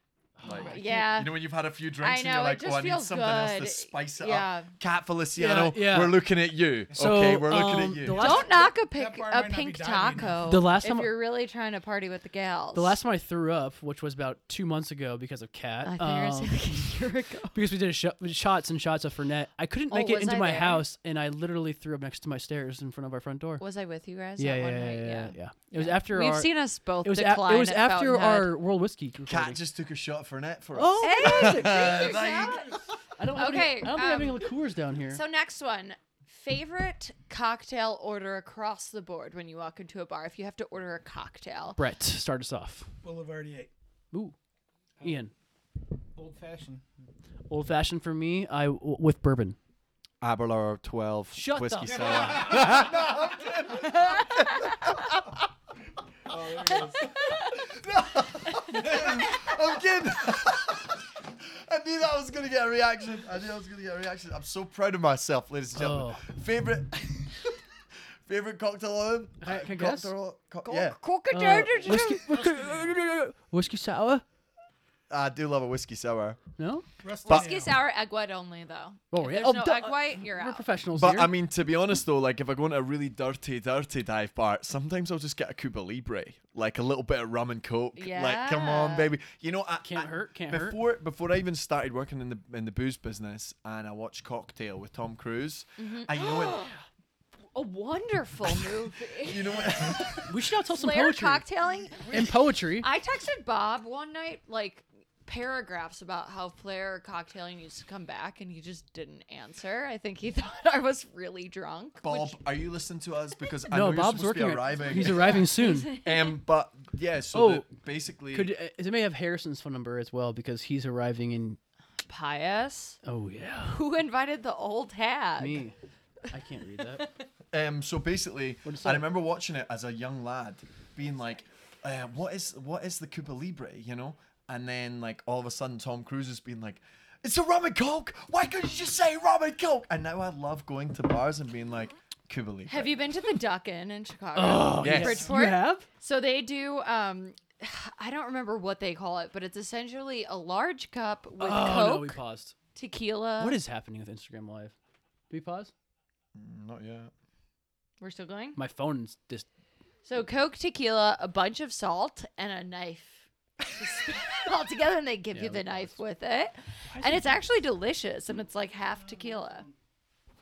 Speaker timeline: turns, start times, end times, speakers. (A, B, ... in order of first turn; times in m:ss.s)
0:00.4-0:01.0 A
0:00.4-0:08.3 B
0:00.6-0:01.4 C
0:02.0-0:04.7 C
0:05.4-0:06.2 A
0:06.9-0:08.5 A
0:08.1-0:13.0 C
0:08.2-0:10.6 D
0:10.5-0:11.1 A
0:12.7-0:17.0 A
0:15.8-0:17.6 C
0:17.5-0:23.6 A
0:19.9-0:20.8 C
0:23.6-0:28.5 C
0:24.4-0:26.5 A
0:27.0-0:29.6 A
0:29.3-0:32.8 B
0:30.8-0:32.1 A
0:31.0-0:32.8 C
0:32.1-0:32.4 D
0:33.2-0:35.2 A
0:33.3-0:34.5 C
0:35.1-0:41.8 C
0:41.8-0:42.9 A
0:43.0-0:43.7 D
0:45.0-0:45.3 A
0:46.2-0:46.9 E
0:47.5-0:49.6 A
0:50.2-0:55.3 B
0:51.3-0:52.5 A
0:51.9-0:52.4 E
0:52.5-0:52.8 D
0:56.3-0:57.2 E
0:57.0-1:07.6 B
1:05.7-1:06.3 A
1:08.3-1:11.0 B
1:09.4-1:10.1 A
1:10.6-1:12.4 C
1:11.3-1:14.2 A
1:15.1-1:16.4 B
1:16.6-1:16.8 A
1:17.0-1:17.8 D
1:17.2-1:17.5 B
1:17.2-1:20.6 C
1:19.1-1:21.3 A
1:21.0-1:36.7 B
1:28.0-1:29.1 C
1:29.8-1:30.8 A
1:35.8-1:36.7 C
1:37.6-1:42.1 C
1:39.2-1:40.3 B
1:40.3-1:41.4 A
1:41.7-1:42.3 B
1:42.1-1:42.9 A
1:42.8-1:52.4 C
1:52.0-1:55.4 B
1:53.7-1:55.9 A
1:54.9-1:56.4 C
1:56.0-1:58.5 B
1:57.3-1:57.6 A
1:58.3-2:01.6 A
2:02.1-2:03.0 C
2:03.0-2:03.8 A
2:03.7-2:05.6 C
2:05.4-2:05.8 A
2:06.3-2:07.1 A
2:07.5-2:23.1 B
2:08.6-2:09.1 A
2:22.7-2:32.2 C
2:24.4-2:25.9 A
2:24.8-2:25.3 B
2:31.4-2:32.6 A
2:32.8-2:33.6 C
2:33.4-2:34.8 A
2:35.3-2:35.7 A
2:36.4-2:37.1 B
2:38.0-2:38.6 C
2:38.6-2:39.5 A
2:40.0-2:49.7 C
2:45.3-2:46.0 A
2:46.9-2:47.3 A
2:49.2-2:49.7 D